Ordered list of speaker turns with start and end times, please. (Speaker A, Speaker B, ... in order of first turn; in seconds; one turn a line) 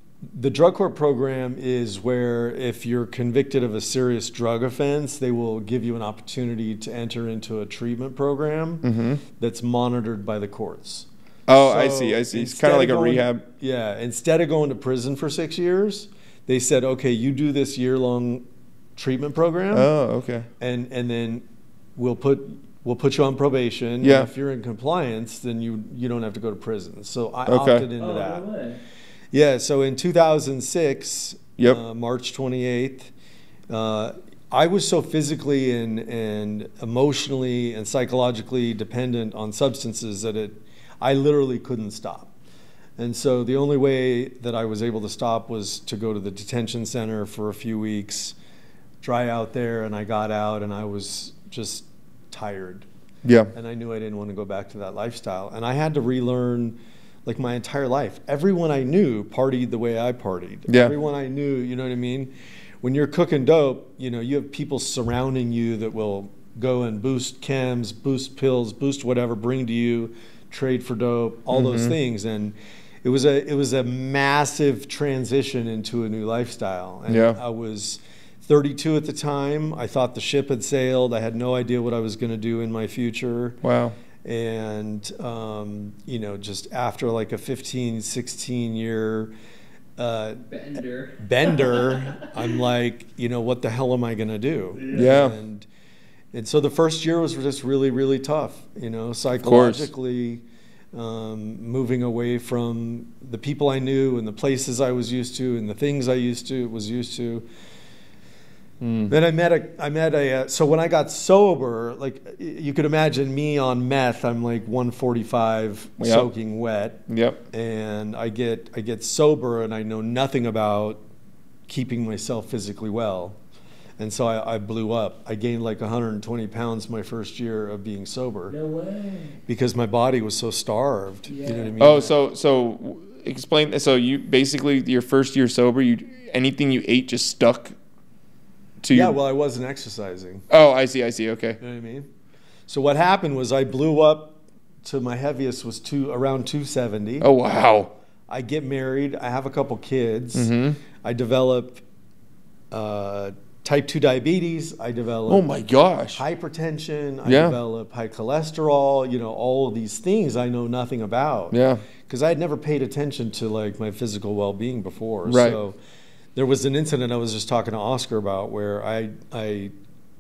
Speaker A: 0.3-18.4
Speaker B: 8.8-9.2
Speaker B: 11.5-13.4
Speaker A: 19.0-19.9
Speaker B: 19.7-20.5
Speaker A: 20.6-21.4
Speaker A: 22.0-28.4
Speaker B: 24.0-24.3
Speaker B: 27.5-27.9
Speaker C: 28.0-28.8
Speaker A: 29.3-33.1
Speaker A: 33.7-42.3
Speaker A: 43.0-48.4
Speaker A: 49.0-52.9
Speaker B: 53.2-53.5
Speaker A: 53.5-83.6
Speaker B: 60.7-60.9
Speaker B: 71.5-72.0
Speaker B: 77.1-77.4
Speaker B: 83.6-84.0
Speaker A: 84.2-89.3
Speaker A: 90.0-90.4
Speaker C: 90.5-92.3
Speaker A: 91.2-95.7
Speaker C: 94.8-95.1
Speaker B: 94.9-95.4
Speaker A: 96.3-107.5
Speaker B: 99.4-99.9
Speaker B: 108.8-109.1
Speaker A: 109.1-121.0
Speaker B: 116.0-116.3
Speaker B: 117.1-117.4
Speaker A: 121.7-123.4
Speaker A: 124.0-128.6
Speaker C: 128.5-129.4
Speaker A: 129.5-132.1
Speaker C: 131.3-131.7
Speaker B: 131.8-137.8
Speaker B: 138.8-139.2
Speaker A: 138.9-140.4
Speaker B: 140.5-141.6
Speaker A: 141.6-142.1
Speaker A: 142.7-147.3
Speaker B: 147.2-147.9
Speaker A: 148.3-151.8
Speaker B: 150.3-150.8
Speaker A: 152.7-155.5
Speaker B: 155.3-156.2
Speaker A: 156.2-165.8
Speaker B: 157.2-157.6
Speaker B: 161.5-161.8
Speaker B: 165.3-165.6
Speaker A: 166.4-169.7